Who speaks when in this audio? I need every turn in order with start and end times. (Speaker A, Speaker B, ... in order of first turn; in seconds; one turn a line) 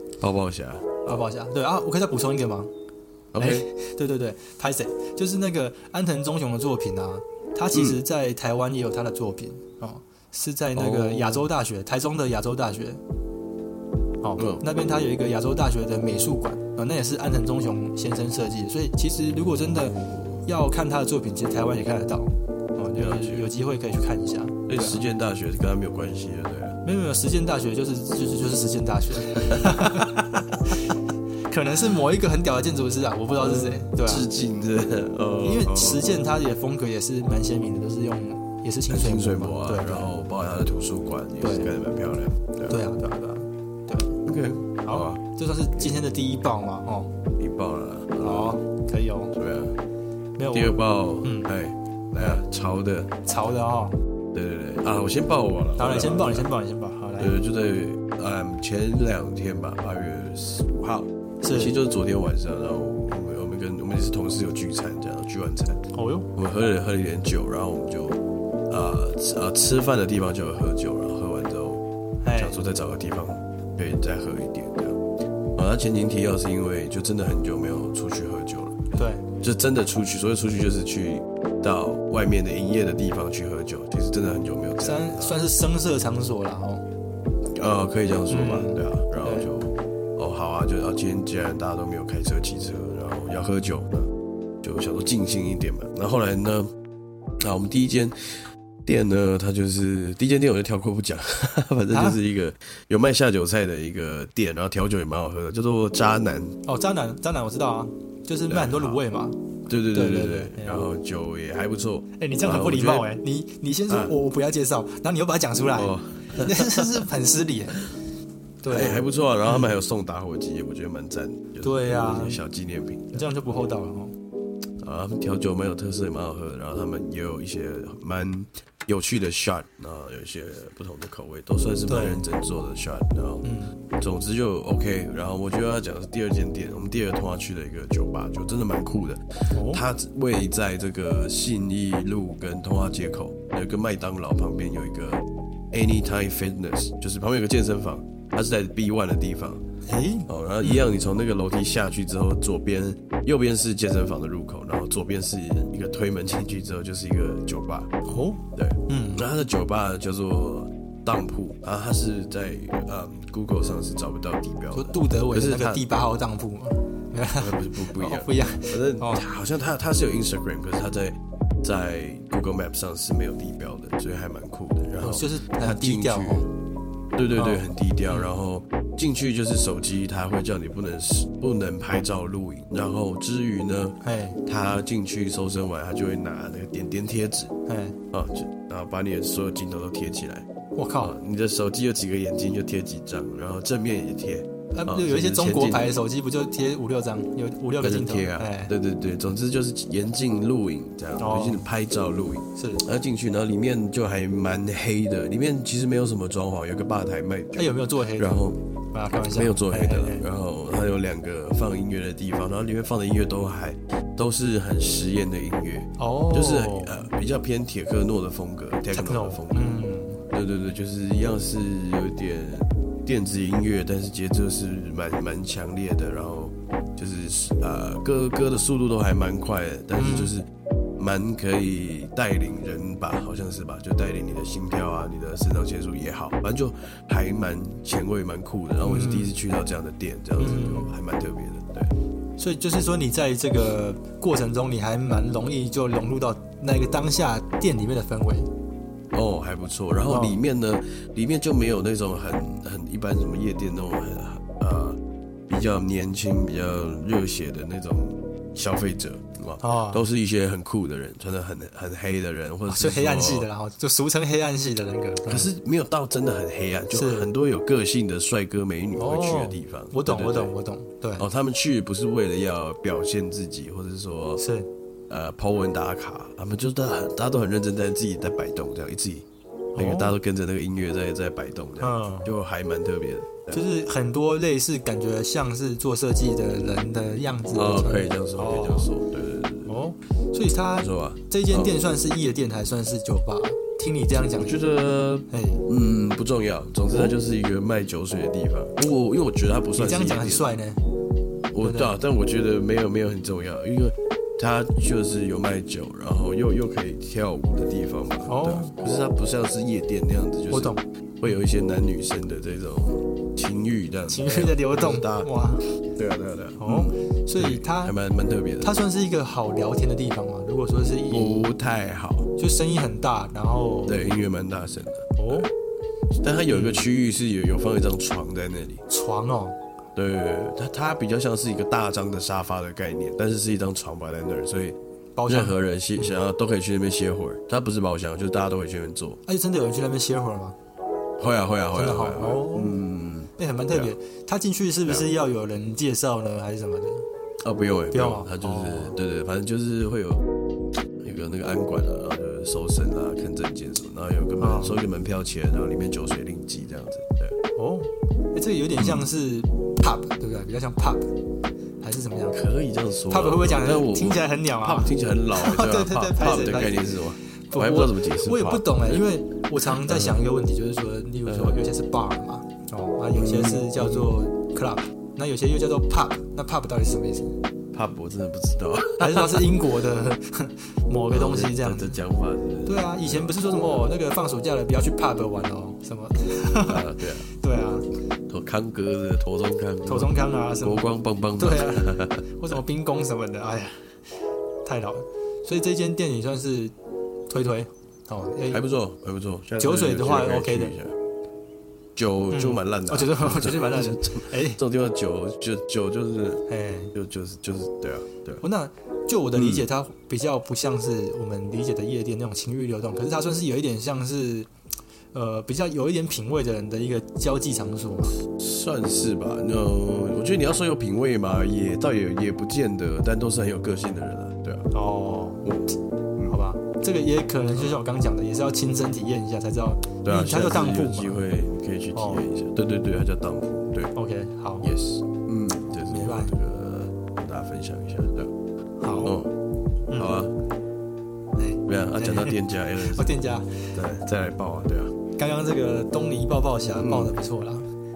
Speaker A: 0.2-0.8
Speaker B: 1.0-2.7
Speaker A: 3.3-3.7
Speaker B: 3.4-13.0
Speaker A: 7.7-8.0
Speaker A: 10.7-11.4
Speaker B: 14.2-25.0
Speaker A: 14.4-14.6
Speaker A: 19.9-20.4
Speaker A: 23.0-23.5
Speaker A: 24.7-26.8
Speaker B: 26.8-30.9
Speaker A: 29.5-29.7
Speaker B: 31.5-34.3
Speaker A: 33.4-36.1
Speaker B: 35.4-40.1
Speaker A: 38.9-42.8
Speaker B: 41.4-41.8
Speaker B: 42.7-44.2
Speaker A: 44.2-45.2
Speaker B: 44.8-47.1
Speaker A: 47.4-48.6
Speaker B: 48.2-49.3
Speaker A: 49.3-49.7
Speaker B: 50.4-51.5
Speaker A: 50.5-53.1
Speaker B: 52.1-52.4
Speaker B: 53.2-54.0
Speaker A: 54.3-56.5
Speaker B: 55.8-57.4
Speaker A: 57.2-65.8
Speaker B: 61.4-61.8
Speaker B: 65.9-66.3
Speaker A: 66.3-71.8
Speaker B: 72.2-72.6
Speaker A: 72.3-75.0
Speaker A: 75.5-85.4
Speaker B: 78.9-79.2
Speaker B: 84.8-86.8
Speaker A: 87.5-94.1
Speaker B: 88.3-89.5
Speaker A: 94.6-96.7
Speaker A: 97.4-106.6
Speaker B: 101.9-102.2
Speaker B: 106.6-110.9
Speaker A: 108.5-109.0
Speaker A: 109.7-113.1
Speaker B: 112.2-117.8
Speaker A: 115.7-117.0
Speaker B: 118.6-119.7
Speaker A: 118.7-123.3
Speaker B: 121.6-122.4
Speaker B: 123.1-124.1
Speaker A: 124.8-149.6
Speaker B: 131.9-132.2
Speaker B: 133.4-133.8
Speaker B: 139.5-139.8
Speaker B: 149.8-150.9
Speaker A: 150.3-157.9
Speaker B: 158.0-159.3
Speaker A: 158.6-165.8
Speaker B: 164.7-169.2
Speaker A: 167.4-176.4
Speaker B: 175.0-176.5
Speaker A: 177.2-187.5
Speaker B: 177.3-178.3
Speaker B: 184.0-184.4
Speaker B: 187.7-188.0
Speaker A: 188.1-190.5
Speaker B: 190.7-191.2
Speaker A: 191.0-195.9
Speaker B: 194.7-198.7
Speaker A: 197.8-208.6
Speaker B: 201.2-201.6
Speaker B: 202.6-202.8
Speaker B: 207.6-210.2
Speaker A: 209.3-219.8
Speaker B: 216.0-217.0
Speaker B: 218.9-220.2
Speaker A: 220.3-230.5
Speaker B: 229.9-230.3
Speaker A: 231.0-241.9
Speaker B: 238.8-239.3
Speaker B: 240.4-240.9
Speaker B: 242.4-248.5
Speaker A: 249.1-255.0
Speaker B: 250.1-250.4
Speaker A: 255.5-263.5
Speaker B: 259.6-260.0
Speaker B: 262.7-265.5
Speaker A: 265.2-270.5
Speaker B: 266.9-267.3
Speaker B: 269.0-271.3
Speaker A: 271.2-274.4
Speaker B: 274.4-274.7
Speaker A: 275.1-279.2
Speaker B: 279.8-280.1
Speaker A: 279.8-283.6
Speaker B: 281.8-282.3
Speaker B: 283.5-288.9
Speaker A: 287.5-289.7
Speaker B: 289.7-294.6
Speaker A: 290.8-291.7
Speaker A: 294.2-300.5
Speaker B: 295.3-295.6
Speaker B: 299.8-300.9
Speaker A: 301.5-315.3
Speaker B: 301.6-301.9
Speaker B: 308.3-308.7
Speaker B: 310.5-310.8
Speaker B: 314.1-315.7
Speaker A: 315.9-318.7
Speaker B: 316.6-317.9
Speaker B: 318.6-321.5
Speaker A: 321.1-322.3
Speaker B: 322.4-324.1
Speaker A: 323.9-325.5
Speaker B: 325.2-325.5
Speaker A: 326.1-328.8
Speaker B: 326.5-326.9
Speaker B: 328.9-329.6
Speaker A: 329.9-334.8
Speaker B: 335.1-336.1
Speaker A: 335.3-339.2
Speaker B: 339.2-340.6
Speaker A: 341.2-343.9
Speaker B: 341.7-342.8
Speaker B: 343.4-347.1
Speaker A: 347.4-350.2
Speaker B: 347.9-349.0
Speaker A: 351.0-357.4
Speaker B: 354.4-354.8
Speaker B: 357.6-361.1
Speaker A: 358.8-359.1
Speaker B: 361.8-362.4
Speaker A: 362.3-369.0
Speaker B: 363.1-366.9
Speaker B: 367.5-377.4
Speaker A: 369.6-370.2
Speaker A: 371.3-371.6
Speaker A: 373.1-374.1
Speaker A: 377.7-379.5
Speaker B: 379.0-382.0
Speaker A: 381.1-383.9
Speaker B: 382.6-387.9
Speaker A: 386.6-387.3
Speaker A: 388.3-392.3
Speaker B: 389.9-393.9
Speaker B: 394.6-396.7
Speaker B: 397.3-398.6
Speaker A: 398.5-400.9
Speaker B: 399.6-400.7
Speaker A: 401.9-408.4
Speaker B: 402.3-404.6
Speaker B: 406.5-406.9
Speaker B: 408.4-414.5
Speaker A: 409.4-409.6
Speaker B: 415.1-418.2
Speaker A: 418.3-424.7
Speaker B: 424.7-425.5
Speaker A: 425.4-426.4
Speaker B: 426.3-431.2
Speaker A: 430.0-433.9
Speaker B: 431.9-432.2
Speaker B: 433.9-434.7
Speaker A: 434.6-438.3
Speaker B: 435.9-436.3
Speaker B: 438.8-439.2
Speaker A: 439.0-439.3
Speaker B: 439.9-440.1
Speaker A: 439.9-440.3
Speaker B: 441.4-443.7
Speaker A: 441.7-443.2
Speaker A: 443.7-444.9
Speaker B: 445.1-447.7
Speaker A: 446.8-447.1